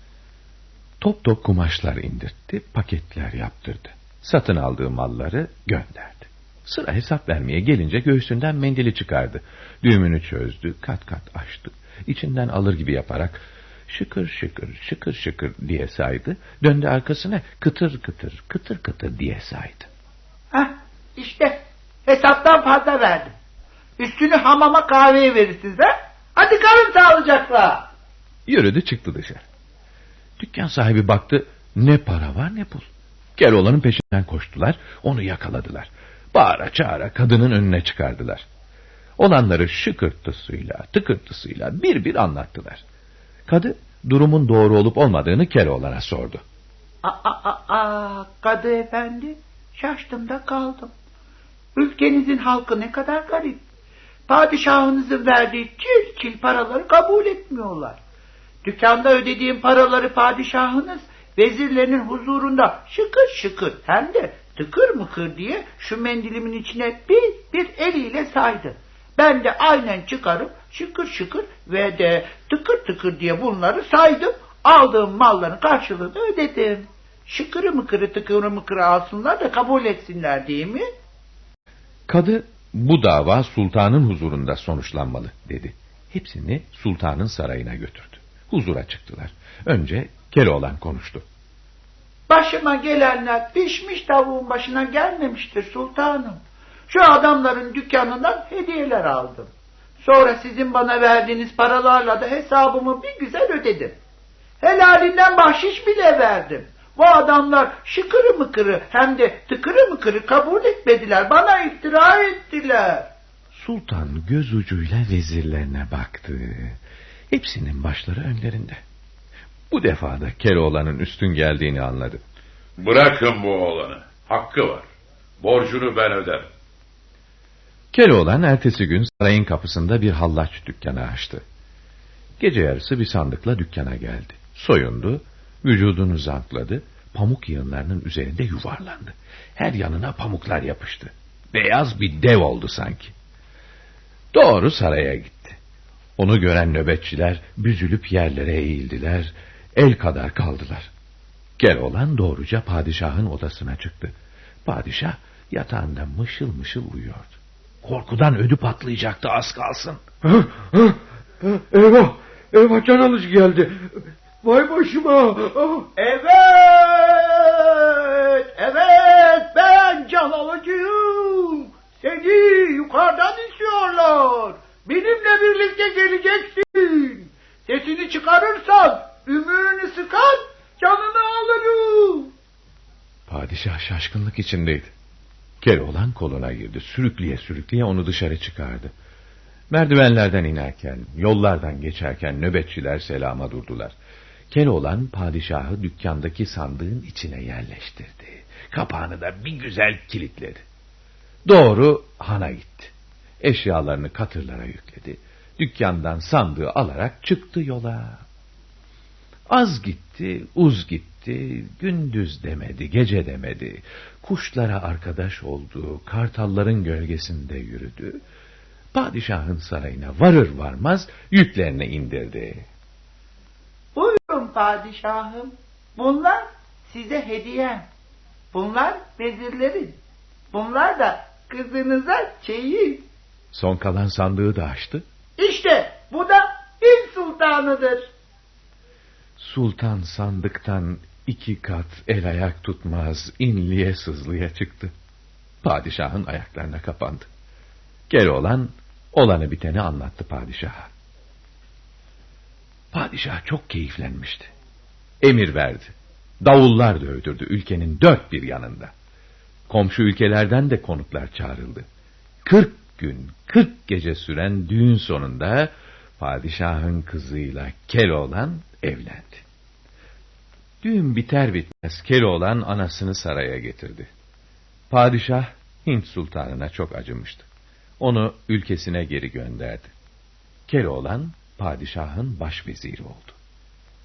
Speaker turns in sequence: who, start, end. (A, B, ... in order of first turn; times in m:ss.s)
0:01.0-0:19.9 A
0:20.5-0:23.3 B
0:24.0-0:27.9 B
0:28.5-0:29.4 A
0:30.4-0:32.8 A
0:33.4-0:38.5 A
0:39.2-0:42.8 A
0:43.5-0:46.4 A
0:47.0-0:50.9 B
0:51.8-0:53.6 B
0:54.3-0:58.0 B
0:58.6-1:20.8 B
1:22.1-1:31.2 A
1:32.3-1:39.5 B
1:40.0-1:44.0 B
1:44.6-1:53.1 B
1:53.5-1:56.8 A
1:57.3-1:58.8 A
1:59.7-2:02.2 A
2:02.8-2:04.8 C
2:05.4-2:06.5 C
2:07.9-2:11.4 A
2:12.4-2:23.1 A
2:24.3-2:25.6 A
2:26.2-2:30.9 A
2:31.6-2:40.0 A
2:41.5-2:43.9 D
2:44.5-2:45.4 D
2:46.0-3:02.3 B
3:03.3-3:04.9 A
3:05.6-3:08.9 A
3:09.7-3:14.0 A
3:14.5-3:20.6 A
3:21.5-3:28.2 A
3:29.5-3:38.2 A
3:38.9-3:42.7 A
3:44.0-3:47.9 B
3:48.5-3:50.0 B
3:50.5-3:53.0 B
3:53.5-3:55.0 A
3:55.4-3:58.0 B
3:59.4-4:04.9 A
4:05.6-4:07.3 A
4:08.1-4:10.9 A
4:12.9-4:14.5 A
4:15.2-4:18.9 A
4:19.7-4:21.9 A
4:22.4-4:29.4 A
4:30.8-4:34.1 A
4:34.9-4:37.5 A
4:38.0-4:39.9 A
4:40.7-4:43.4 A